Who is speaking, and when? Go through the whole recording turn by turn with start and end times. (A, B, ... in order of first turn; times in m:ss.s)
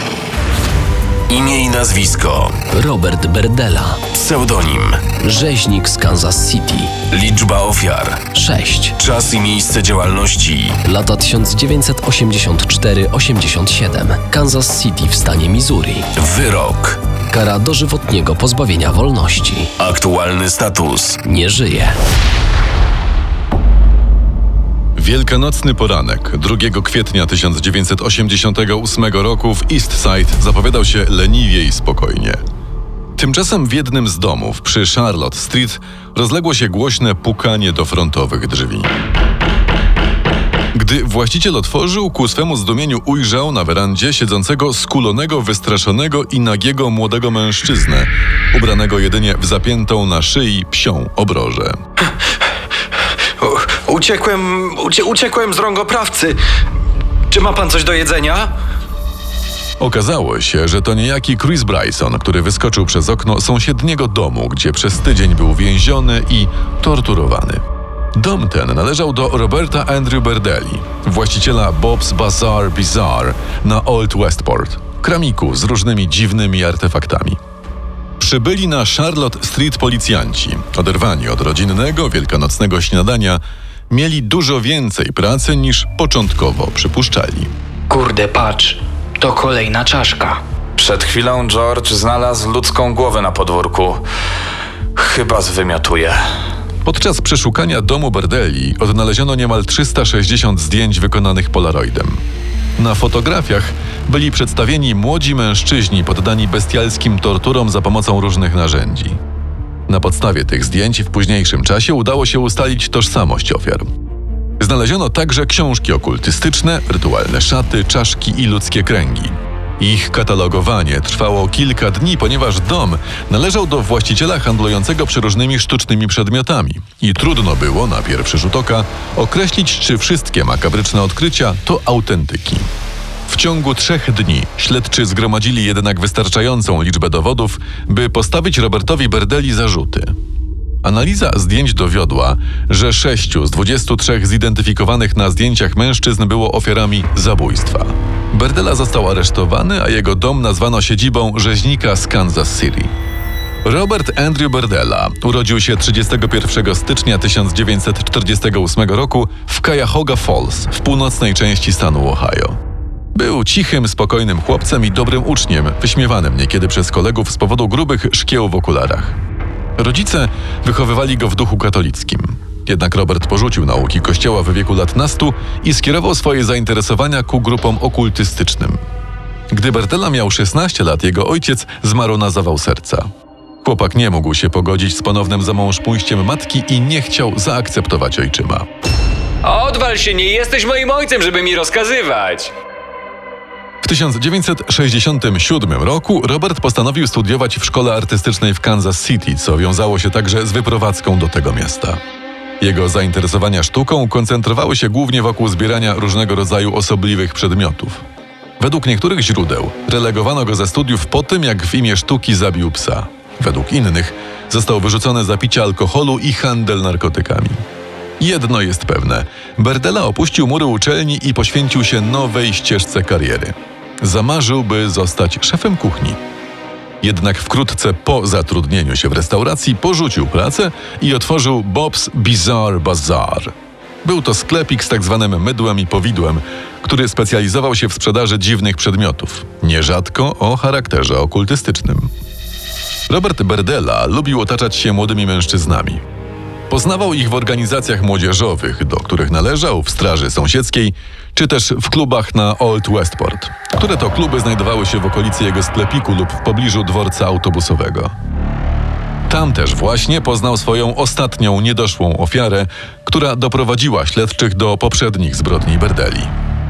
0:01.3-0:02.6 A
0:02.7-0:04.1 B
0:04.1-0:05.0 A
0:05.1-0:07.1 B
0:07.1-0:08.3 A
0:08.3-0:09.0 B
0:09.0-0:10.8 A
0:10.8-0:16.1 B
0:16.2-0:17.0 A
0:17.3-0:19.7 B
0:19.8-0:21.2 A
0:21.2-0:22.0 B
0:25.0-0:32.4 C
0:33.2-0:38.9 C
0:40.7-0:51.8 C
0:53.4-0:56.4 D
0:57.3-0:58.5 D
0:59.8-1:07.6 C
1:08.2-1:17.4 C
1:18.2-1:27.5 C
1:27.9-1:30.4 E
1:30.8-1:34.0 F
1:35.0-1:36.2 F
1:36.8-1:42.2 C
1:42.8-1:49.2 C
1:49.9-1:53.9 C
1:54.6-2:12.7 C
2:13.3-2:20.1 C
2:20.8-2:32.9 C
2:33.6-2:42.6 C
2:43.2-2:49.2 C
2:49.8-2:58.8 C
2:59.5-3:03.1 C
3:03.6-3:08.7 C
3:09.4-3:12.5 G
3:13.8-3:22.0 C
3:22.6-3:28.0 C
3:28.6-3:37.6 C
3:38.2-3:46.2 C
3:47.0-3:53.5 C
3:54.0-4:02.1 C
4:03.1-4:06.0 C
4:06.7-4:18.1 C
4:19.3-4:26.3 C